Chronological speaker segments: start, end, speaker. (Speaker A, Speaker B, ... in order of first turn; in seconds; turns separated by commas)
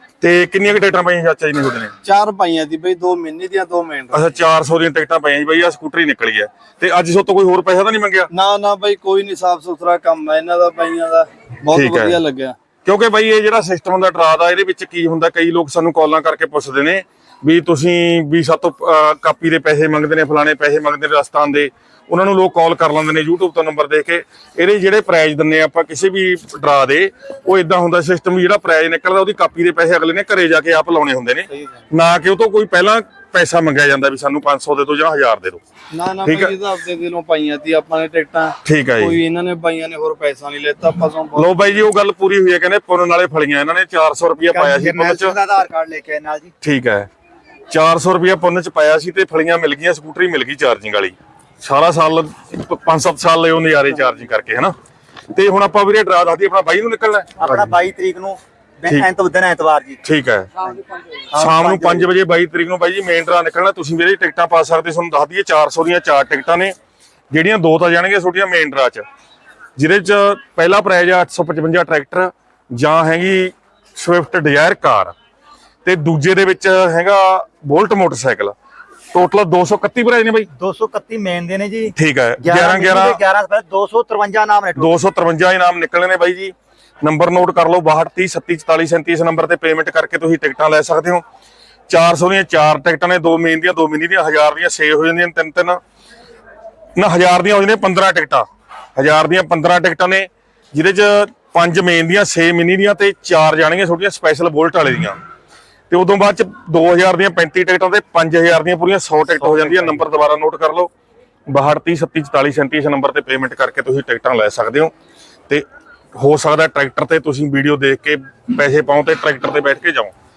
Speaker A: 0.2-1.9, Speaker B: 2.0-4.4, Speaker A: 4.1-8.3, Speaker B: 8.3-12.5, Speaker A: 11.7-12.2, Speaker A: 12.8-35.6, Speaker B: 31.5-31.8, Speaker B: 35.9-41.8, Speaker A: 36.2-36.5, Speaker A: 38.6-39.2, Speaker A: 41.4-45.3, Speaker C: 44.5-46.5, Speaker A: 46.6-47.1, Speaker A: 47.7-54.7, Speaker A: 55.3-57.7, Speaker C: 57.4-60.0, Speaker A: 60.0-60.6, Speaker C: 61.3-62.1, Speaker A: 61.3-66.7, Speaker A: 67.3-69.0, Speaker A: 69.8-75.1, Speaker A: 75.8-78.5, Speaker A: 79.1-80.5, Speaker C: 80.5-84.9, Speaker A: 81.9-83.2, Speaker A: 84.8-91.2, Speaker A: 91.9-95.8, Speaker A: 97.0-105.2, Speaker A: 105.9-110.9, Speaker A: 111.5-114.9, Speaker A: 116.2-120.1